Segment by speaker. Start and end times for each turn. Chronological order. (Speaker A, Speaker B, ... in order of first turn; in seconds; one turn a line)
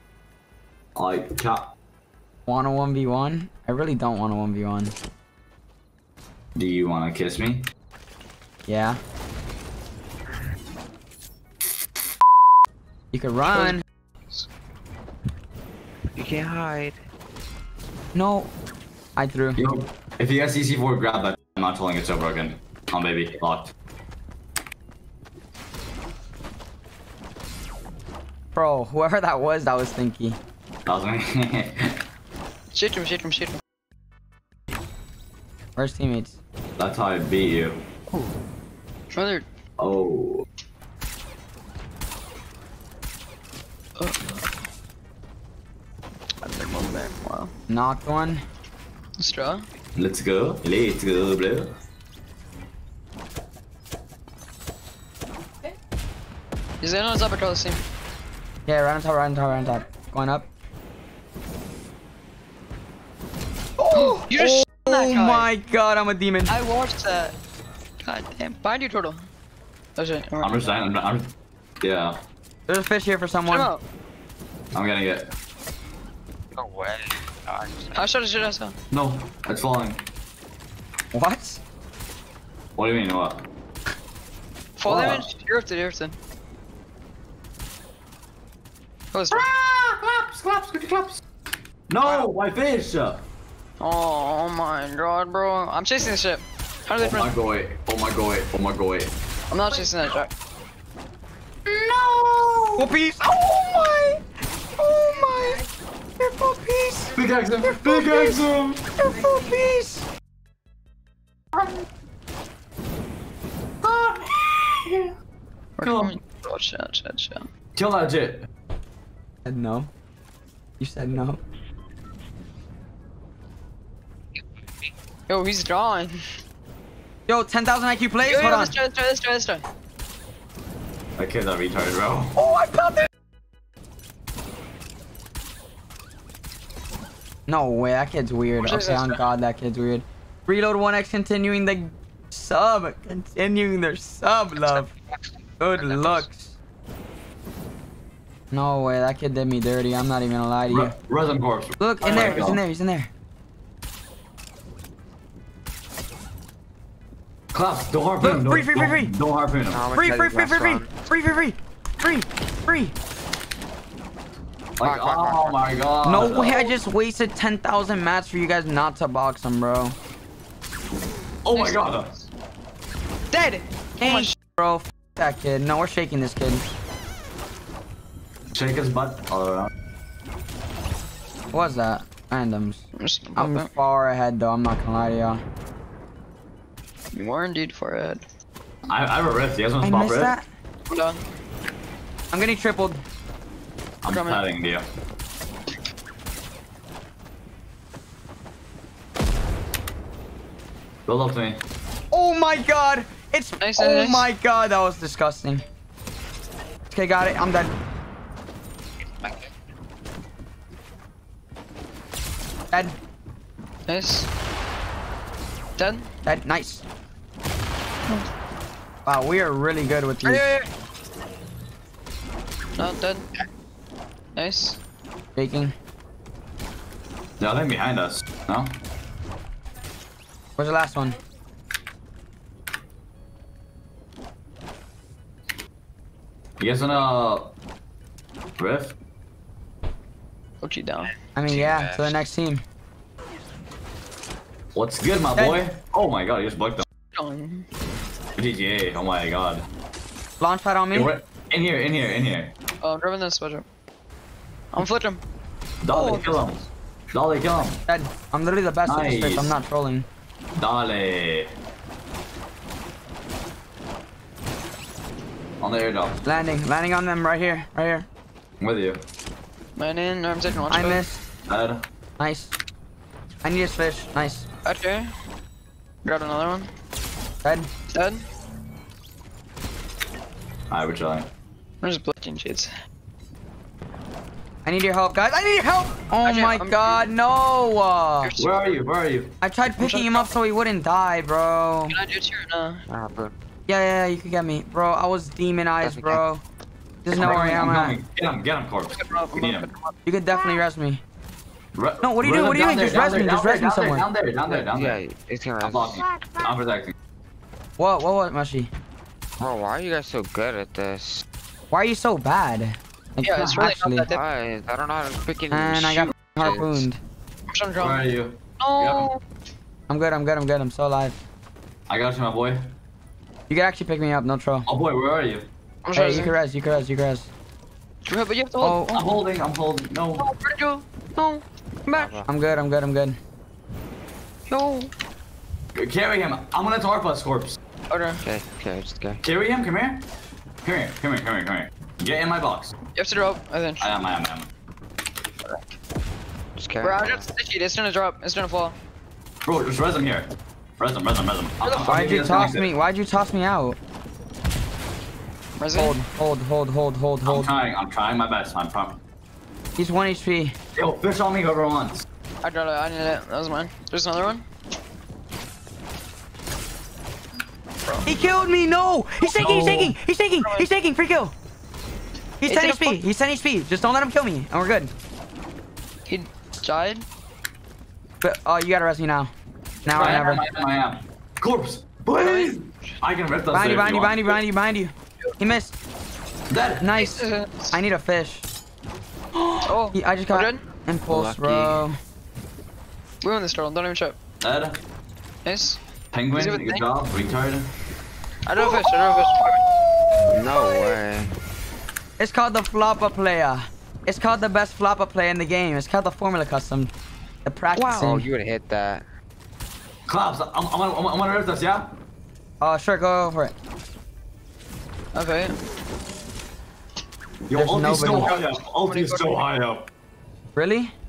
Speaker A: 0.9-1.7
Speaker B: 2.5-4.9
Speaker A: 6.5-7.7
Speaker B: 8.7-9.0
Speaker B: 13.1-13.8
Speaker C: 13.5-14.5
Speaker D: 16.1-17.0
Speaker B: 18.1-18.5
Speaker B: 19.1-19.6
Speaker A: 19.6-23.7
Speaker B: 28.5-30.4
Speaker A: 30.9-31.9
Speaker C: 32.7-33.6
Speaker B: 35.8-36.4
Speaker A: 36.8-37.8
Speaker C: 39.1-39.4
Speaker A: 39.8-40.5
Speaker C: 46.4-47.5
Speaker B: 47.7-48.4
Speaker C: 49.2-49.6
Speaker A: 50.0-51.7
Speaker C: 56.8-57.8
Speaker B: 58.6-60.5
Speaker B: 63.8-66.5
Speaker C: 64.0-65.5
Speaker C: 66.5-67.3
Speaker C: 68.0-69.2
Speaker C: 70.0-70.7
Speaker A: 70.4-71.3
Speaker A: 71.8-72.2
Speaker B: 72.7-73.7
Speaker C: 73.5-73.8
Speaker A: 74.7-75.3
Speaker D: 76.5-78.0
Speaker C: 77.9-78.7
Speaker A: 78.9-80.0
Speaker B: 81.1-81.6
Speaker A: 82.8-83.4
Speaker C: 84.8-86.2
Speaker A: 84.9-85.3
Speaker C: 89.1-89.5
Speaker A: 89.3-91.2
Speaker A: 91.9-93.2
Speaker C: 92.0-92.3
Speaker C: 93.8-97.3
Speaker A: 97.0-99.1
Speaker C: 99.5-100.3
Speaker A: 101.7-102.9
Speaker B: 102.8-104.2
Speaker B: 104.8-105.6
Speaker B: 106.2-108.4
Speaker A: 107.1-108.8
Speaker B: 109.0-110.1
Speaker A: 113.8-115.1
Speaker C: 115.8-117.4
Speaker A: 115.8-116.1
Speaker A: 117.7-118.5
Speaker B: 119.4-119.9
Speaker B: 120.8-121.4
Speaker D: 124.4-124.9
Speaker C: 125.3-126.2
Speaker B: 127.3-128.7
Speaker C: 128.2-129.6
Speaker A: 131.2-132.4
Speaker B: 132.3-133.1
Speaker B: 137.5-144.9
Speaker C: 138.6-139.2
Speaker D: 144.7-146.2
Speaker B: 145.6-146.6
Speaker B: 148.5-150.9
Speaker A: 150.7-152.6
Speaker B: 151.8-153.1
Speaker D: 152.1-152.4
Speaker A: 157.5-159.8
Speaker B: 158.2-159.1
Speaker D: 159.7-160.9
Speaker B: 159.9-162.9
Speaker A: 164.8-166.6
Speaker D: 164.8-165.8
Speaker B: 166.0-169.9
Speaker C: 166.3-166.6
Speaker A: 171.4-172.1
Speaker C: 171.5-172.3
Speaker C: 173.3-174.3
Speaker B: 174.0-176.6
Speaker A: 178.5-179.7
Speaker B: 181.5-185.4
Speaker C: 183.0-183.7
Speaker C: 187.1-188.2
Speaker A: 188.9-190.3
Speaker B: 189.8-190.4
Speaker C: 190.9-191.2
Speaker B: 192.3-193.0
Speaker A: 194.0-194.8
Speaker C: 194.1-194.4
Speaker A: 201.1-201.6
Speaker B: 202.1-205.6
Speaker C: 203.6-204.3
Speaker B: 206.9-207.7
Speaker D: 209.1-209.5
Speaker B: 212.7-212.9
Speaker C: 213.9-214.3
Speaker C: 215.8-216.1
Speaker B: 216.2-216.8
Speaker B: 219.0-220.4
Speaker C: 220.2-220.7
Speaker C: 222.8-223.3
Speaker C: 224.3-224.8
Speaker B: 225.3-225.7
Speaker A: 227.4-228.8
Speaker B: 230.6-231.2
Speaker A: 236.6-237.5
Speaker A: 238.6-238.9
Speaker C: 240.6-241.1
Speaker B: 241.3-242.6
Speaker D: 241.4-242.2
Speaker A: 244.7-246.8
Speaker B: 245.3-245.6
Speaker C: 247.1-247.7
Speaker A: 248.4-249.7
Speaker B: 250.4-251.1
Speaker A: 250.9-252.5
Speaker C: 252.8-253.6
Speaker C: 254.7-255.2
Speaker A: 255.8-257.8
Speaker C: 255.9-256.6
Speaker B: 257.9-260.1
Speaker A: 258.9-259.5
Speaker A: 260.6-261.5
Speaker A: 265.6-266.2
Speaker B: 266.2-268.1
Speaker A: 268.6-269.0
Speaker C: 269.8-271.0
Speaker B: 270.7-271.2
Speaker A: 271.5-271.8
Speaker B: 272.2-272.5
Speaker B: 273.4-274.5
Speaker C: 274.6-275.1
Speaker C: 276.0-276.7
Speaker B: 277.4-277.7
Speaker C: 277.9-278.2
Speaker A: 280.7-281.3
Speaker C: 281.8-282.7
Speaker B: 284.6-288.3
Speaker C: 286.2-286.9
Speaker C: 288.2-288.8
Speaker A: 288.4-289.3
Speaker B: 289.4-291.9
Speaker C: 289.8-290.3
Speaker C: 291.9-292.8
Speaker D: 292.9-293.3
Speaker B: 293.7-296.4
Speaker D: 295.8-296.2
Speaker B: 297.0-298.0
Speaker A: 297.1-299.7
Speaker C: 298.9-299.9
Speaker B: 300.1-301.0
Speaker A: 301.7-305.0
Speaker B: 302.0-304.1
Speaker D: 304.5-306.0
Speaker A: 305.6-306.9
Speaker B: 307.8-308.7
Speaker D: 309.4-311.2
Speaker B: 311.7-314.1
Speaker C: 313.2-314.2
Speaker D: 314.1-316.8
Speaker B: 315.5-317.0
Speaker C: 317.5-318.1
Speaker A: 317.8-319.1
Speaker C: 318.6-319.2
Speaker B: 319.9-321.2
Speaker A: 321.9-322.7
Speaker B: 323.5-324.7
Speaker A: 324.7-325.5
Speaker C: 325.8-326.3
Speaker B: 325.9-327.3
Speaker C: 328.1-328.8
Speaker B: 328.6-329.1
Speaker A: 328.9-330.3
Speaker C: 330.2-332.2
Speaker D: 331.9-332.2
Speaker B: 332.3-333.2
Speaker C: 334.5-334.9
Speaker A: 335.7-337.6
Speaker C: 337.9-338.2
Speaker D: 338.2-339.2
Speaker A: 339.2-340.0
Speaker A: 340.6-342.7
Speaker C: 342.9-344.0
Speaker A: 343.8-344.5
Speaker D: 346.6-347.2
Speaker C: 346.8-348.8
Speaker A: 349.4-352.7
Speaker C: 351.6-352.5
Speaker B: 351.8-353.8
Speaker C: 355.6-356.0
Speaker B: 355.7-357.5
Speaker A: 357.2-359.0
Speaker B: 359.8-360.5
Speaker A: 360.8-362.1
Speaker C: 362.4-364.4
Speaker C: 367.8-368.1
Speaker B: 368.0-371.3
Speaker A: 369.2-369.9
Speaker C: 370.4-370.7
Speaker B: 372.4-374.9
Speaker C: 372.5-373.0
Speaker C: 376.1-377.0
Speaker B: 378.2-379.3
Speaker B: 379.8-380.4
Speaker A: 379.9-384.4
Speaker C: 382.1-382.6
Speaker B: 383.5-385.7
Speaker A: 386.5-386.9
Speaker B: 386.8-388.4
Speaker C: 386.9-387.8
Speaker B: 389.3-392.0
Speaker C: 389.6-390.6
Speaker D: 391.1-391.8
Speaker C: 393.2-394.2
Speaker A: 394.4-394.8
Speaker C: 395.4-395.8
Speaker A: 396.1-397.7
Speaker C: 396.3-396.9
Speaker C: 398.4-399.6
Speaker B: 398.6-400.3
Speaker D: 400.3-401.3
Speaker C: 400.5-400.9
Speaker B: 402.2-406.9
Speaker B: 407.4-408.3
Speaker D: 407.7-409.1
Speaker A: 410.1-411.9
Speaker B: 412.6-413.5
Speaker C: 415.1-415.5
Speaker A: 417.5-419.9
Speaker B: 417.5-418.4
Speaker C: 418.1-419.5
Speaker B: 420.5-420.9